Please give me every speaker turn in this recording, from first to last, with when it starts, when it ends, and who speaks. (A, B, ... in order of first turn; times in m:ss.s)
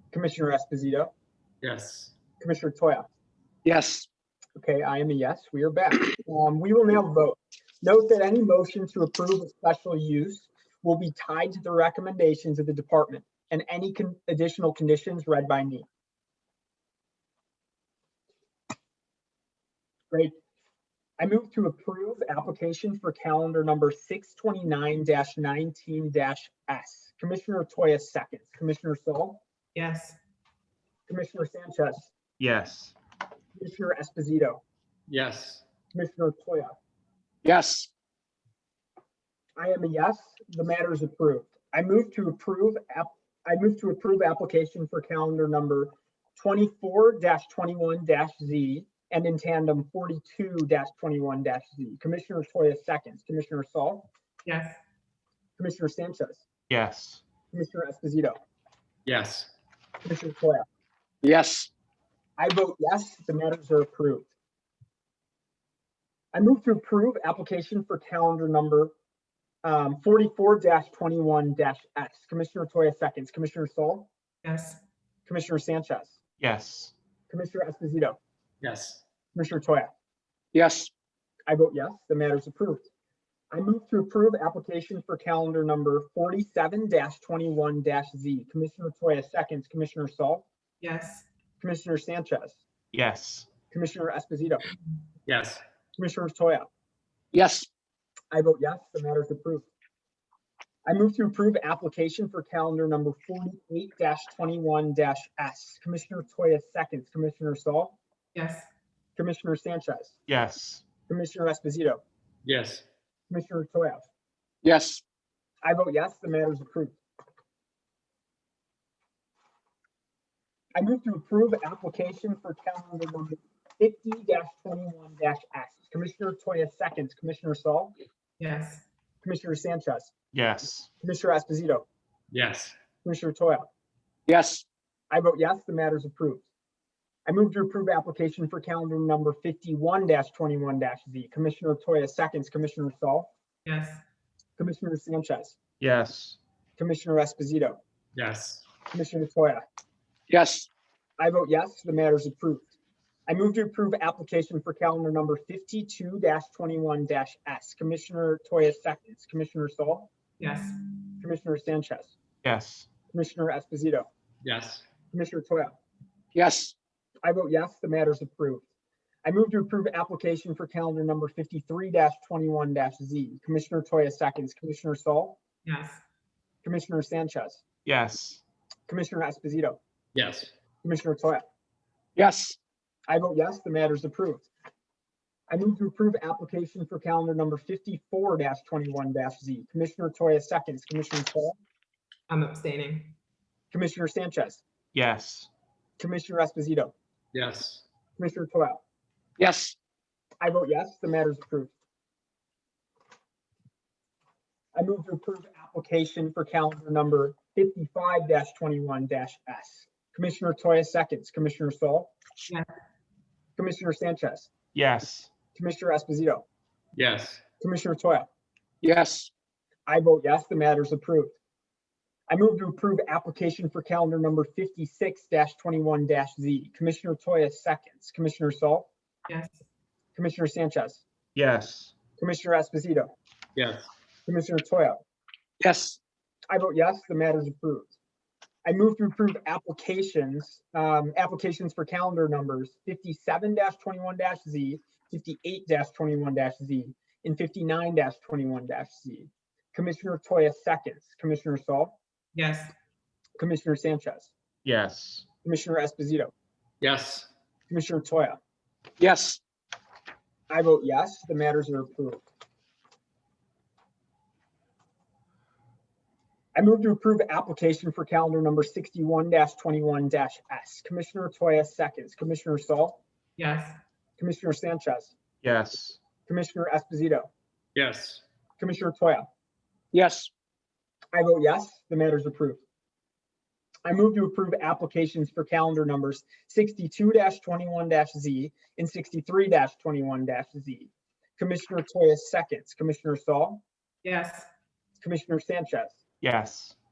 0:00.1-0:01.1 A
0:01.6-0:02.1 B
0:02.4-0:03.1 A
0:03.6-0:04.1 C
0:04.6-0:15.8 A
0:21.2-0:29.4 A
0:29.7-0:30.2 D
0:31.1-0:32.1 A
0:32.4-0:32.9 E
0:33.6-0:34.6 A
0:35.1-0:35.6 B
0:35.9-0:36.8 A
0:37.4-0:37.9 C
0:39.6-0:54.1 A
0:54.4-0:54.8 D
0:55.6-0:56.4 A
0:56.7-0:57.2 E
0:57.5-0:58.4 A
0:59.0-0:59.5 B
1:00.0-1:00.6 A
1:01.2-1:01.7 C
1:02.4-1:04.3 A
1:06.3-1:08.9 A
1:09.6-1:14.1 A
1:14.4-1:14.8 D
1:15.2-1:16.2 A
1:16.4-1:16.9 E
1:17.3-1:18.2 A
1:18.6-1:19.0 B
1:19.3-1:19.9 A
1:20.5-1:20.9 C
1:21.5-1:22.9 A
1:23.5-1:30.4 A
1:30.8-1:31.2 D
1:31.6-1:32.6 A
1:33.0-1:33.5 E
1:33.7-1:34.6 A
1:35.3-1:35.6 B
1:36.0-1:36.7 A
1:37.3-1:37.7 C
1:38.3-1:39.7 A
1:40.8-1:48.0 A
1:48.3-1:48.7 D
1:49.2-1:50.2 A
1:50.3-1:50.8 E
1:51.1-1:52.0 A
1:52.4-1:52.8 B
1:53.3-1:54.0 A
1:54.6-1:55.0 C
1:55.6-1:57.0 A
2:00.7-2:07.9 A
2:08.4-2:08.8 D
2:09.2-2:10.1 A
2:10.4-2:10.9 E
2:11.0-2:11.8 A
2:12.3-2:12.7 B
2:13.0-2:13.7 A
2:14.3-2:14.6 C
2:15.1-2:16.4 A
2:17.2-2:23.3 A
2:23.6-2:24.0 D
2:24.6-2:25.6 A
2:25.8-2:26.4 E
2:26.8-2:27.8 A
2:28.2-2:28.6 B
2:28.9-2:29.6 A
2:30.3-2:30.7 C
2:31.2-2:32.7 A
2:33.3-2:40.1 A
2:40.4-2:40.8 D
2:41.2-2:42.1 A
2:42.4-2:42.9 E
2:43.1-2:44.1 A
2:44.4-2:44.8 B
2:45.1-2:45.8 A
2:46.3-2:46.7 C
2:47.2-2:48.6 A
2:49.2-2:55.4 A
2:55.6-2:56.0 D
2:56.6-2:57.6 A
2:57.9-2:58.4 E
2:58.9-2:59.8 A
3:00.1-3:00.5 B
3:00.8-3:01.4 A
3:02.2-3:02.6 C
3:03.1-3:04.5 A
3:05.5-3:11.6 A
3:12.3-3:13.1 D
3:13.7-3:14.6 A
3:15.0-3:15.5 E
3:16.0-3:16.9 A
3:17.3-3:17.8 B
3:18.2-3:18.8 A
3:19.4-3:19.8 C
3:20.4-3:21.7 A
3:24.7-3:32.1 A
3:33.6-3:34.5 A
3:34.9-3:35.2 E
3:35.5-3:36.4 A
3:37.0-3:37.4 B
3:37.6-3:38.3 A
3:38.8-3:39.3 C
3:39.9-3:41.4 A
3:42.3-3:48.9 A
3:49.3-3:49.6 D
3:50.1-3:51.0 A
3:51.4-3:51.9 E
3:52.2-3:53.1 A
3:53.6-3:53.9 B
3:54.2-3:55.0 A
3:55.6-3:56.0 C
3:56.5-3:57.9 A
3:58.6-4:12.0 A
4:12.3-4:12.7 D
4:13.4-4:14.3 A
4:14.8-4:15.2 E
4:15.4-4:16.3 A
4:16.8-4:17.3 B
4:17.7-4:18.4 A
4:19.0-4:19.4 C
4:20.5-4:22.2 A
4:26.5-4:33.0 A
4:33.4-4:33.8 D
4:34.2-4:35.1 A
4:35.4-4:36.0 E
4:36.2-4:37.3 A
4:37.7-4:38.2 B
4:38.6-4:39.3 A
4:39.9-4:40.3 C
4:41.1-4:42.6 A
4:43.8-4:53.6 A
4:54.0-4:54.5 D
4:55.0-4:56.0 A
4:56.3-4:56.7 E